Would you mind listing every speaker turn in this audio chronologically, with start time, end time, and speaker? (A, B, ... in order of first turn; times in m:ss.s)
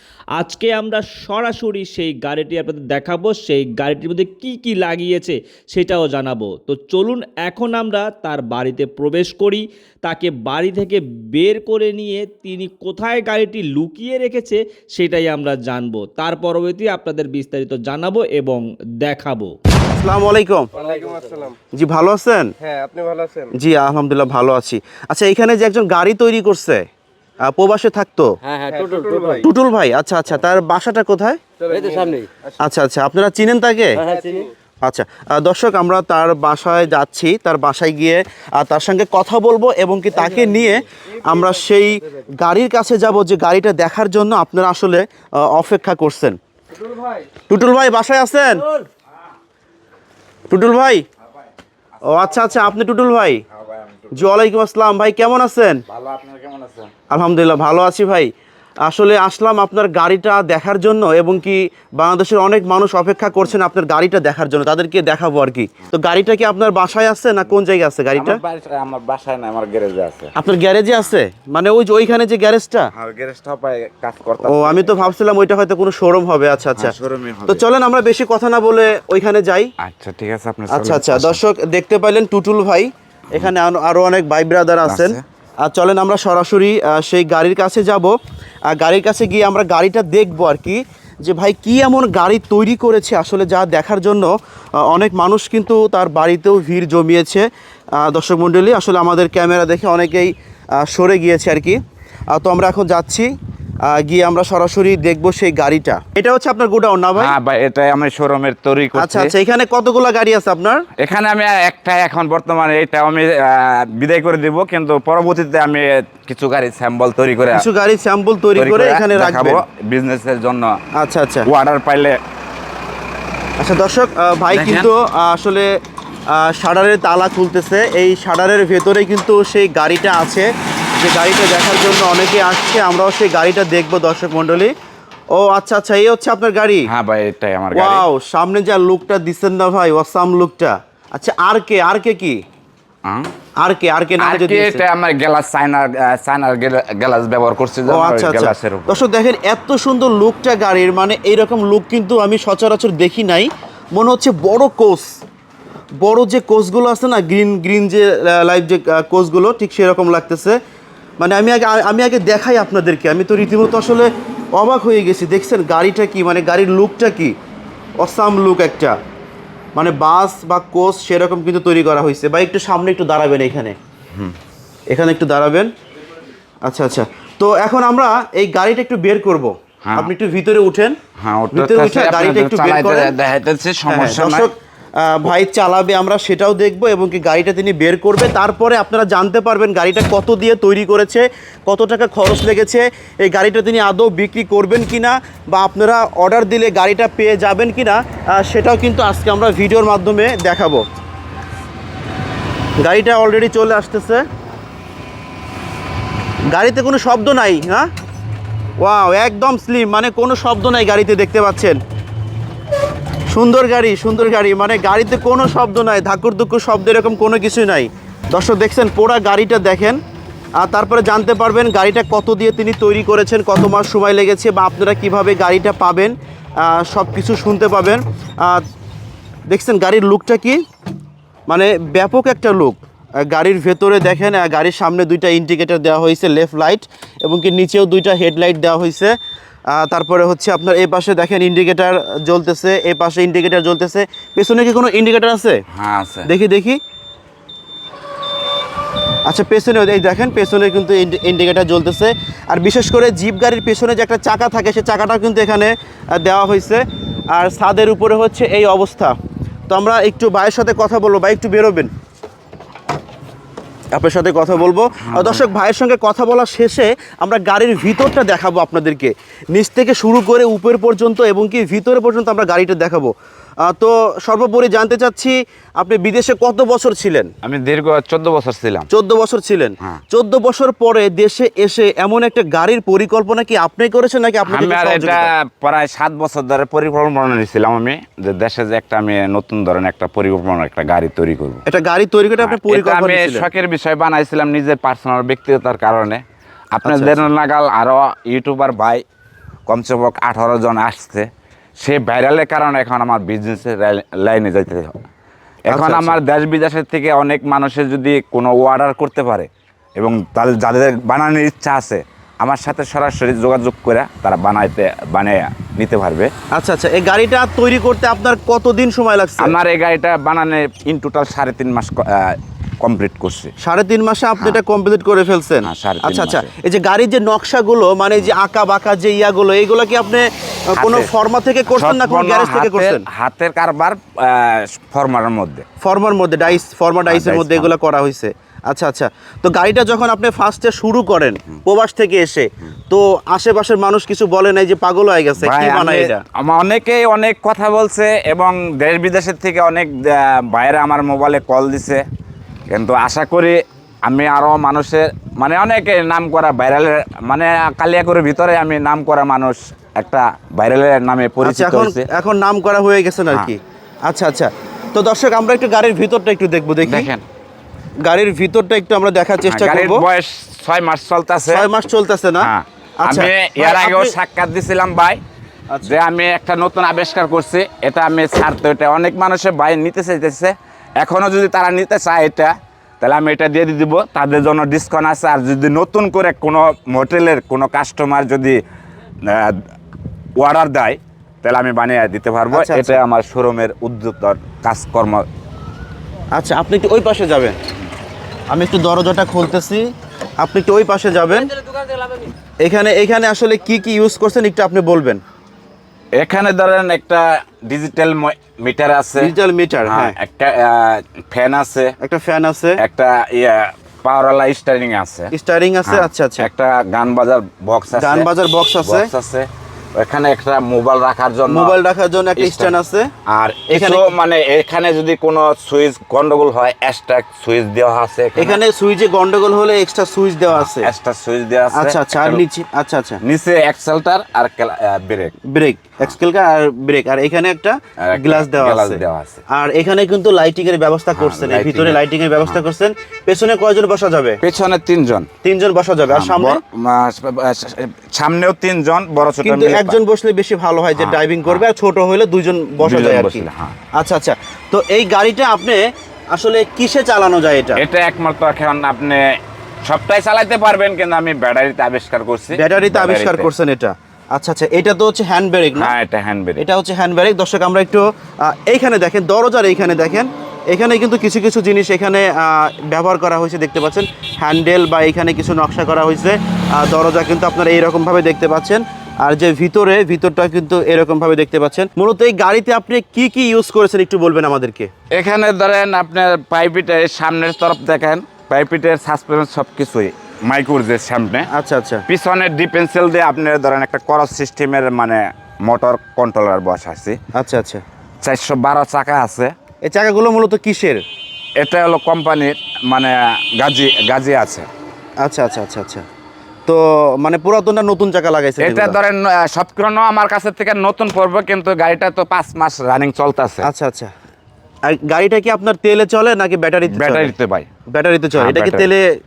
0:00.4-0:19.6 A
0:19.9-0:20.7 B
0:20.8-0:21.5 C
0:21.7-0:22.5 B
0:22.8-0:23.5 C
0:23.5-0:26.9 B
0:27.4-0:28.3 B
0:28.5-0:29.4 C
0:29.4-0:31.4 B
0:31.7-0:32.3 C
0:32.6-0:34.0 B
0:34.0-0:34.5 C
0:34.8-0:46.4 B
0:47.5-0:48.7 B
0:50.5-0:51.0 B
0:52.0-0:53.4 B
0:53.6-0:54.2 D
0:54.1-0:55.8 B
0:55.9-0:56.9 D
0:57.1-0:58.3 B
0:58.8-1:08.4 B
1:08.2-1:10.3 D
1:10.4-1:12.9 B
1:13.0-1:15.1 D
1:14.4-1:17.0 B
1:16.8-1:17.6 D
1:17.5-1:19.7 B
1:19.8-1:21.4 D
1:20.7-1:28.1 B
1:24.9-1:25.2 D
1:28.7-1:37.5 B
1:38.0-1:41.8 B
1:42.3-1:43.3 B
1:43.9-1:47.3 B
1:47.2-1:49.3 D
1:49.0-1:50.8 B
1:51.0-1:57.6 D
1:57.5-1:59.6 B
1:58.6-2:00.8 D
2:01.0-2:01.5 B
2:01.5-2:02.2 D
2:03.6-2:05.7 B
2:04.5-2:04.9 D
2:06.3-2:10.5 B
2:11.0-2:14.7 B
2:15.3-2:16.9 B
2:16.9-2:18.0 D
2:17.7-2:22.4 B
2:23.6-2:24.8 B
2:24.2-2:29.0 D
2:27.9-2:35.1 B
2:36.0-2:40.6 B
2:41.2-2:47.4 B
2:48.0-2:48.9 B
2:49.8-2:53.8 B
2:54.9-2:55.7 B
2:56.6-3:01.0 B
3:01.2-3:04.5 D
3:01.5-3:03.1 B
3:03.9-3:20.8 B
3:22.8-3:24.2 B
3:26.5-3:27.9 B
3:28.8-3:31.8 B
3:33.3-3:40.0 B
3:40.6-3:48.6 B
3:49.5-3:50.6 B
3:51.5-3:59.2 B
3:59.7-4:05.6 B
4:05.8-4:06.3 D
4:06.2-4:06.8 B
4:09.3-4:19.2 B
4:19.7-4:21.9 B
4:23.9-4:33.1 B
4:25.1-4:25.4 D
4:33.6-4:37.3 B
4:37.4-4:38.9 D
4:38.9-4:45.3 B
4:44.5-4:51.6 D
4:51.7-4:53.5 B
4:52.4-4:56.2 D
4:56.7-4:59.0 D
4:56.8-4:57.2 B
4:59.7-5:01.3 D
5:01.8-5:04.9 D
5:05.7-5:06.2 B
5:05.7-5:09.5 D
5:10.0-5:16.3 D
5:16.5-5:19.6 B
5:19.4-5:23.5 D
5:23.6-5:33.0 B
5:25.6-5:26.5 D
5:30.8-5:31.1 D
5:31.7-5:35.6 D
5:35.8-5:46.2 B
5:37.1-5:37.7 D
5:45.4-5:52.0 D
5:52.7-6:02.1 D
6:01.4-6:07.1 B
6:06.9-6:07.2 D
6:08.0-6:10.0 B
6:09.5-6:11.7 D
6:11.5-6:12.5 B
6:12.4-6:15.2 D
6:13.0-6:14.2 B
6:15.8-6:28.6 D
6:29.3-6:29.6 D
6:30.4-6:35.2 D
6:32.5-6:33.0 B
6:36.4-6:37.6 B
6:38.5-6:39.8 B
6:40.4-6:41.5 B
6:42.6-6:45.2 B
6:46.2-6:49.3 D
6:49.2-6:50.2 B
6:49.9-6:51.9 D
6:52.0-6:52.8 B
6:52.8-6:55.3 D
6:55.3-6:56.5 B
6:55.9-6:58.3 D
6:57.9-6:59.1 B
6:58.8-7:01.8 D
7:01.5-7:03.1 B
7:02.4-7:02.8 D
7:03.3-7:08.6 D
7:03.7-7:04.1 B
7:08.4-7:10.9 B
7:10.5-7:12.4 D
7:11.7-7:13.2 B
7:13.2-7:15.4 D
7:15.5-7:24.4 B
7:18.0-7:19.4 D
7:21.2-7:22.6 D
7:24.4-7:25.3 D
7:25.4-7:26.6 B
7:26.1-7:30.0 D
7:29.4-7:35.8 B
7:31.0-7:31.6 D
7:32.8-7:33.8 D
7:36.3-7:37.8 B
7:37.8-7:39.2 D
7:39.8-7:43.5 D
7:42.5-7:45.9 B
7:45.8-7:46.6 D
7:46.6-8:04.9 B
8:05.1-8:11.5 D
8:11.5-8:12.0 B
8:12.1-8:17.2 D
8:17.3-8:17.8 B
8:18.2-8:19.5 D
8:19.8-8:21.0 B
8:21.6-8:24.7 D
8:25.2-8:26.0 B
8:26.7-8:29.0 B
8:28.6-8:33.7 D
8:33.6-8:34.1 B
8:34.9-8:37.3 B
8:36.9-8:37.7 D
8:37.9-8:39.1 B
8:38.4-8:38.9 D